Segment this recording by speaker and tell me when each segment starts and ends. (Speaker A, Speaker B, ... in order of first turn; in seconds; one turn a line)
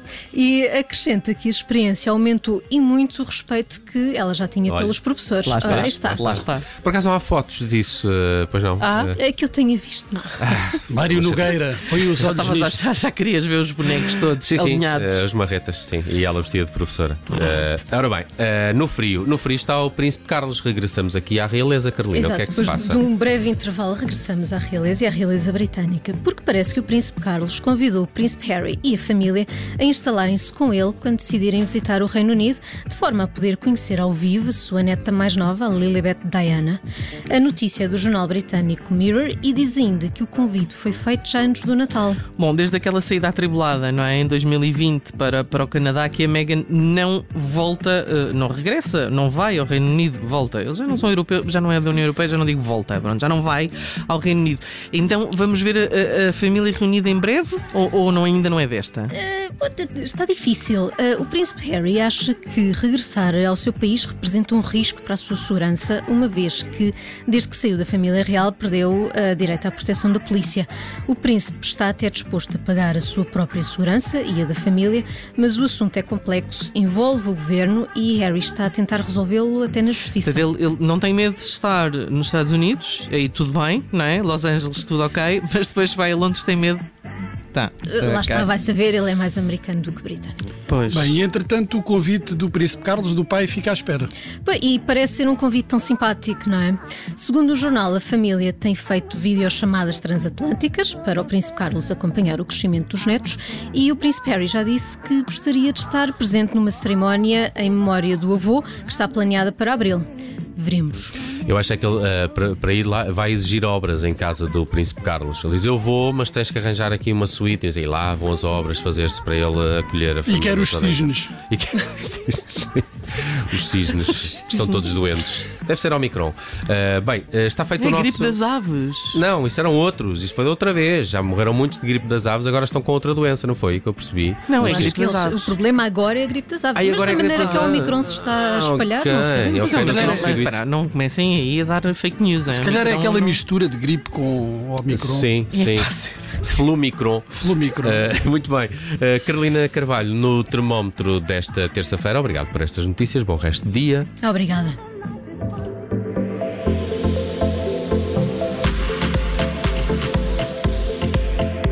Speaker A: 0.3-6.3
Speaker B: 4.7-5.0
Speaker C: 5.4-6.7
Speaker B: 5.5-9.2
Speaker C: 8.8-9.1
Speaker A: 9.1-10.4
Speaker B: 10.4-11.6
Speaker D: 10.9-12.8
Speaker C: 11.9-15.2
Speaker B: 14.4-23.0
Speaker A: 22.1-42.2
Speaker C: 42.4-59.1
Speaker A: 59.1-80.5
Speaker C: 80.2-86.8
Speaker C: 87.5-88.5
Speaker A: 87.8-90.4
Speaker C: 90.7-91.2
Speaker D: 90.9-94.1
Speaker A: 94.4-111.1
Speaker B: 111.4-128.4
Speaker D: 120.2-121.3
Speaker C: 127.8-129.2
Speaker B: 129.1-134.9
Speaker C: 134.5-135.6
Speaker A: 134.6-140.2
Speaker B: 136.7-140.6
Speaker C: 137.3-137.8
Speaker C: 139.6-143.4
Speaker D: 139.7-140.4
Speaker D: 142.4-145.3
Speaker B: 144.9-154.1
Speaker C: 145.5-146.3
Speaker D: 147.3-148.2
Speaker A: 154.2-154.8